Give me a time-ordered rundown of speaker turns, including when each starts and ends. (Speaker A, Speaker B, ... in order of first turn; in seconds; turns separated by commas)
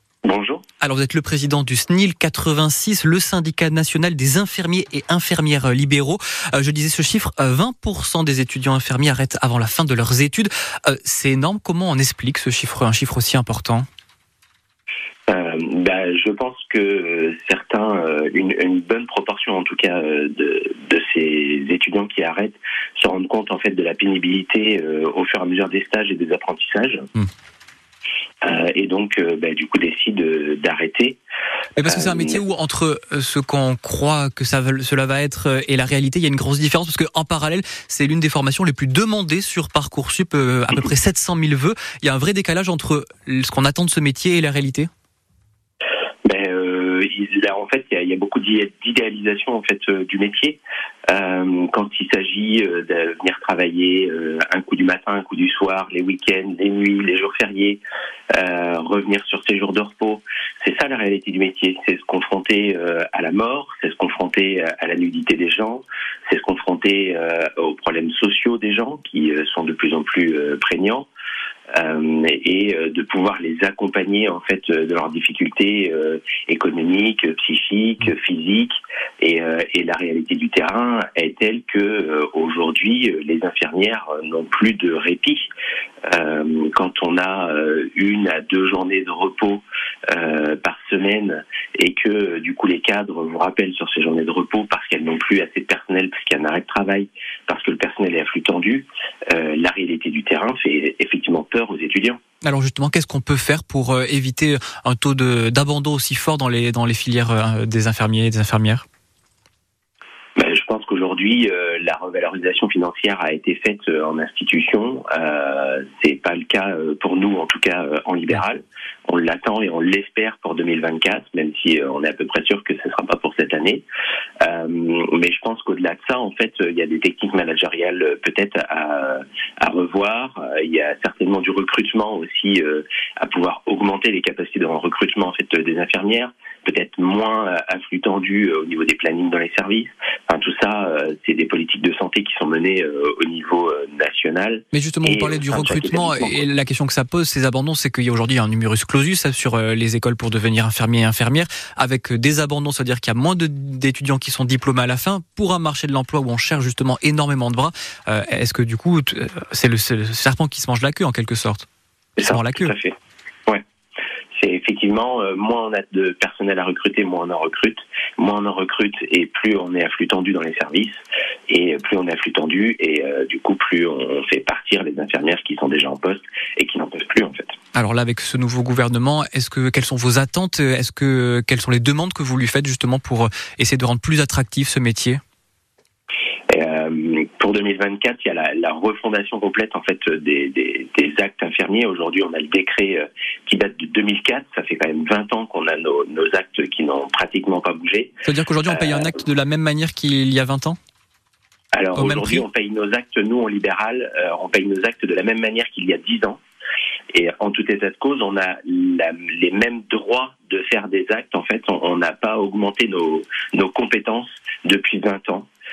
Speaker A: 0.2-0.6, Speaker B: 0.8-13.9, Speaker A: 15.3-27.1, Speaker A: 28.4-31.2, Speaker B: 31.8-44.9, Speaker A: 31.8-32.4, Speaker A: 46.2-57.8, Speaker A: 58.3-71.1, Speaker A: 71.7-85.5, Speaker A: 86.1-102.2, Speaker B: 102.4-108.8, Speaker A: 110.3-123.8, Speaker A: 124.4-146.4, Speaker B: 144.7-161.7, Speaker B: 162.2-162.7, Speaker A: 162.2-163.6, Speaker A: 164.3-171.0, Speaker A: 171.5-177.6, Speaker B: 177.7-185.2, Speaker A: 186.5-199.1, Speaker B: 198.2-200.8, Speaker A: 201.7-206.4, Speaker B: 201.9-202.4, Speaker A: 207.1-215.5